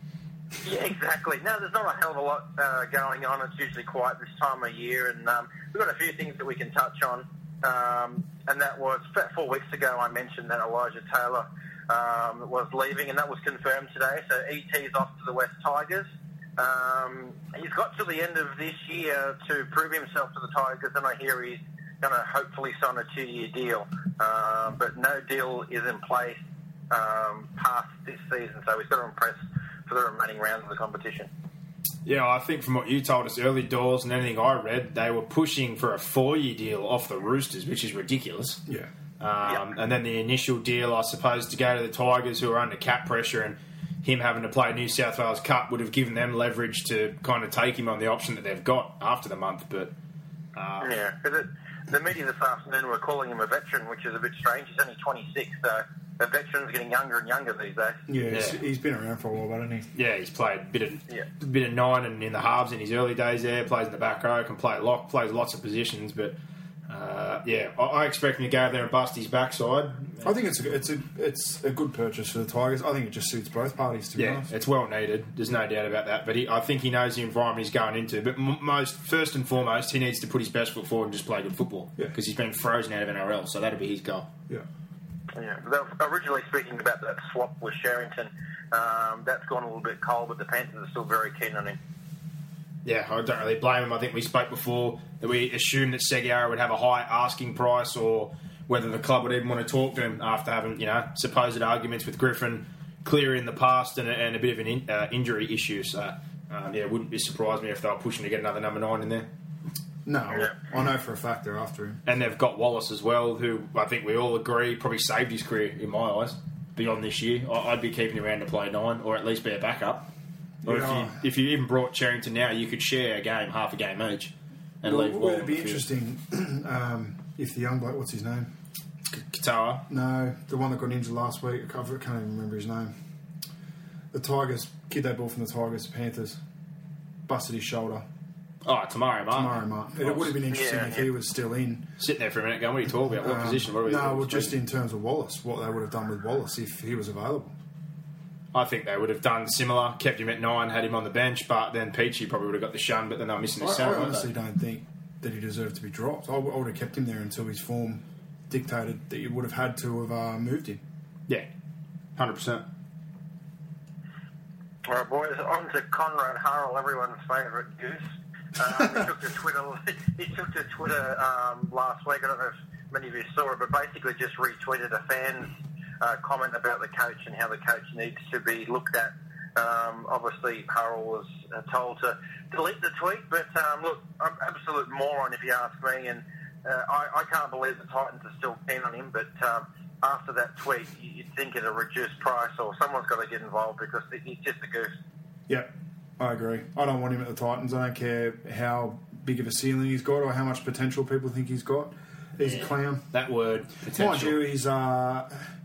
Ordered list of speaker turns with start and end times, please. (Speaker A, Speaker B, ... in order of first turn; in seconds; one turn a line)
Speaker A: 0.6-26.4
Speaker A: 26.9-31.3
Speaker B: 32.0-38.6
Speaker B: 39.2-49.9
Speaker B: 50.5-50.9
Speaker A: 50.8-58.0
Speaker C: 58.1-59.9
Speaker B: 58.3-58.6
Speaker B: 60.0-66.4
Speaker B: 66.9-70.3
Speaker C: 70.2-74.5
Speaker B: 74.2-84.3
Speaker A: 85.3-91.8
Speaker B: 92.8-109.3
Speaker C: 110.0-112.0
Speaker B: 112.1-120.1
Speaker C: 120.6-121.2
Speaker B: 120.7-125.8
Speaker C: 124.8-128.5
Speaker B: 129.1-129.8
Speaker C: 129.9-132.9
Speaker C: 134.1-136.4
Speaker C: 137.3-138.1
Speaker B: 138.7-140.4
Speaker C: 139.3-141.9
Speaker A: 140.5-141.1
Speaker B: 142.0-144.6
Speaker C: 143.2-147.6
Speaker B: 148.5-154.3
Speaker C: 153.6-160.8
Speaker B: 162.2-162.6
Speaker A: 164.9-168.0
Speaker A: 168.6-194.9
Speaker C: 195.5-203.1
Speaker B: 202.4-204.4
Speaker C: 203.9-205.5